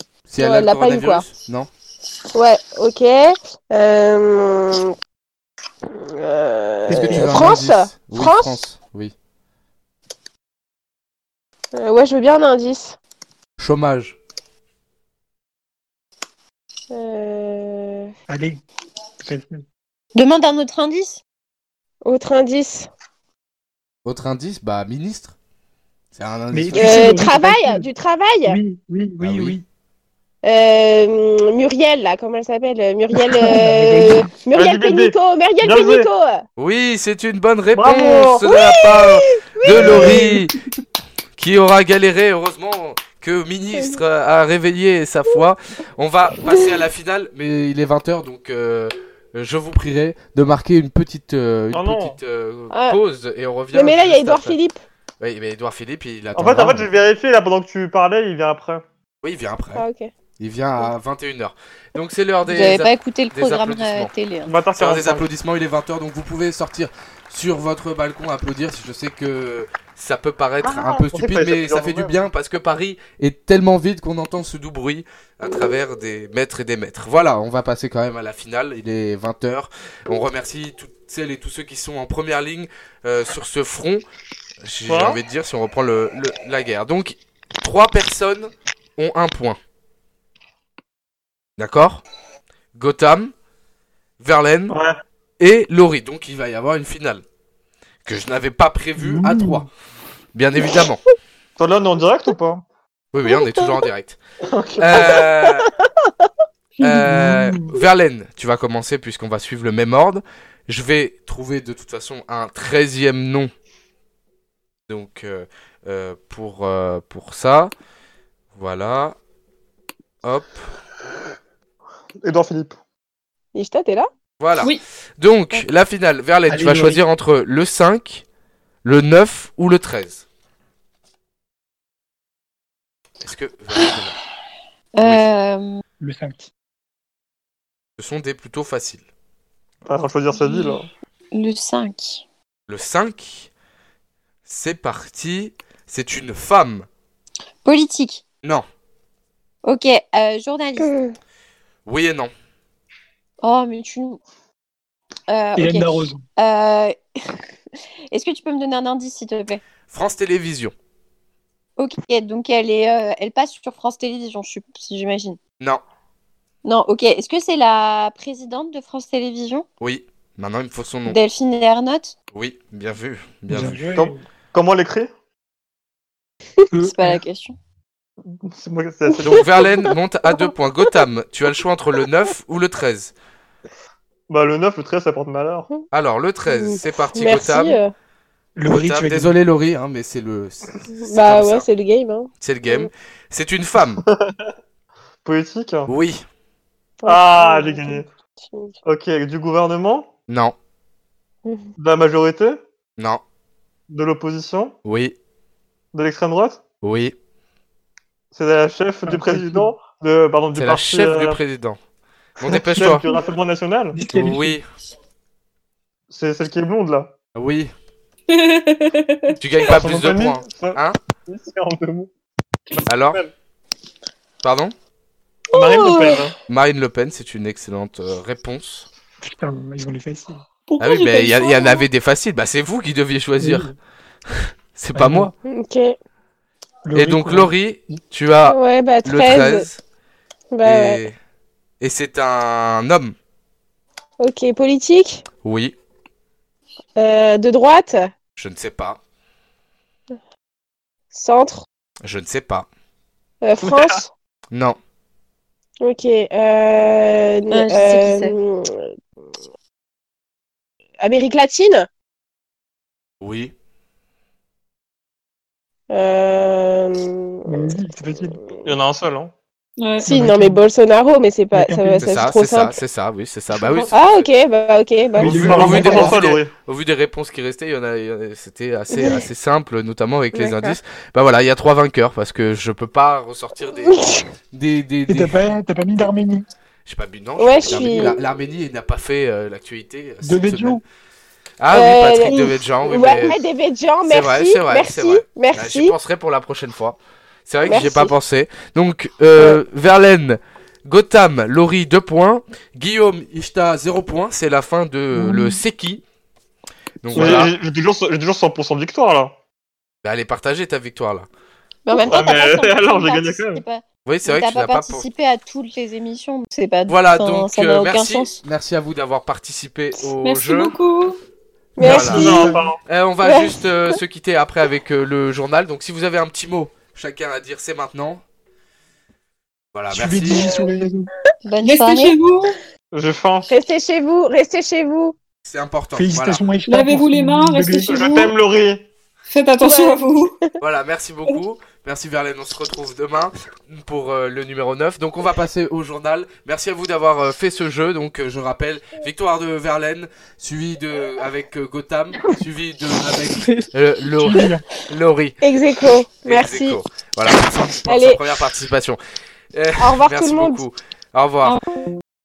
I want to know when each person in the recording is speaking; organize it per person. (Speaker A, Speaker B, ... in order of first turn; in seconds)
Speaker A: 0.3-1.7, 6.9-9.1, 13.6-14.2, 24.0-25.3, 26.1-27.2, 29.2-29.6, 36.6-40.5, 41.4-54.5, 55.2-56.9, 59.2-59.8, 60.4-64.1, 64.8-84.0, 84.6-89.6, 91.6-92.0, 92.7-93.3, 94.2-94.8, 95.4-97.2, 98.0-99.7, 100.3-101.0, 103.1-104.2, 104.8-105.7, 106.8-113.5, 114.9-117.7, 118.5-119.2, 120.2-120.7, 124.4-128.2, 128.8-130.2, 133.2-134.2, 138.0-139.0, 142.7-143.5, 144.4-146.9, 151.8-152.3, 159.9-160.7, 169.8-171.2, 172.3-173.8, 179.2-183.1, 185.9-187.8, 188.7-191.7, 192.4-194.0, 195.9-196.2, 200.3-200.5, 203.0-203.2, 204.8-205.2, 206.8-207.1, 210.5-211.8, 212.4-213.1, 214.1-214.7, 217.3-217.7, 219.3-221.0, 222.8-223.2, 224.4-224.7, 226.5-228.9, 230.8-233.7, 234.3-235.3, 236.9-239.8, 240.6-241.2, 241.8-243.1, 245.4-245.7, 248.3-249.0, 252.0-252.7, 254.5-254.8, 263.2-263.5, 272.0-274.3, 275.2-285.4, 286.9-290.8, 291.6-293.4, 294.0-306.0, 307.0-307.6, 310.0-311.3, 314.0-315.0, 316.9-320.8, 321.8-328.2, 329.7-330.6, 335.4-336.4, 340.6-355.4, 356.2-359.0, 359.5-361.6
Speaker B: 0.4-1.2, 2.3-4.9, 5.9-8.6, 11.7-13.0, 16.9-18.1, 22.0-22.9, 26.7-28.6, 30.4-36.4, 38.4-39.9, 46.4-46.8, 52.7-53.0, 53.7-54.8, 59.8-60.1, 123.5-124.1, 150.8-151.1, 179.1-179.4, 186.5-187.9, 190.9-192.9, 197.0-198.7, 201.4-201.7, 235.4-235.9, 238.4-239.7, 240.5-241.0, 244.2-245.2, 247.0-248.1, 251.1-251.7, 253.4-254.1, 255.8-258.9, 261.0-261.9, 265.9-267.8, 270.0-272.8, 273.9-275.9, 278.9-279.3, 280.3-280.8, 283.8-284.3, 287.4-288.2, 291.7-295.9, 297.6-298.1, 321.8-322.6, 323.2-323.6, 333.5-335.1, 339.6-340.3, 355.4-356.8, 357.9-358.2, 359.8-360.6
Speaker C: 6.9-7.4, 18.3-18.6, 19.2-19.6, 26.5-27.8, 28.4-29.6, 33.2-34.3, 39.8-40.4, 99.0-99.7, 106.8-107.7, 126.5-127.0, 136.0-136.5, 155.6-156.2, 173.5-174.2, 176.7-177.2, 188.6-189.3, 209.0-209.7, 213.9-214.6, 229.2-230.4, 233.4-233.7, 234.9-235.3, 236.8-238.0, 267.5-268.4, 270.0-270.6, 271.5-272.1, 275.2-276.2, 285.1-286.5, 290.2-290.8, 305.1-305.6, 321.8-322.6, 329.9-331.1, 335.9-338.0, 354.1-354.6
Speaker D: 20.1-21.2, 62.5-64.5, 135.0-135.8, 141.3-142.2, 147.6-148.2, 149.6-150.9, 153.4-154.2, 155.3-156.9, 158.1-159.6, 161.8-165.4, 166.6-169.7, 171.1-172.1, 176.8-177.6, 257.5-258.4, 311.9-318.4, 331.4-332.2
Speaker E: 34.5-36.1, 37.7-38.5, 39.8-40.3, 51.7-52.2, 56.3-58.8, 64.5-65.3, 70.6-72.2, 84.9-85.2, 94.7-95.0, 101.6-102.6, 104.5-105.2, 122.2-122.8, 139.9-140.9, 173.9-175.1, 178.2-179.6, 184.3-185.7, 194.1-194.5, 195.2-195.9, 197.0-198.1, 198.8-200.1, 201.8-202.6, 203.9-204.7, 205.9-206.6, 208.3-211.4, 212.5-214.0, 216.1-217.1, 219.6-222.1, 222.7-223.3, 225.5-226.3, 253.6-254.0, 268.6-269.3, 273.6-273.9, 275.2-276.5, 307.1-309.3, 312.0-313.6, 322.0-322.8, 332.9-333.5, 337.9-338.9
Speaker F: 218.3-219.4, 225.5-226.2, 230.7-231.8, 269.8-270.1, 320.2-321.2, 331.6-332.6, 336.7-338.3, 339.3-340.4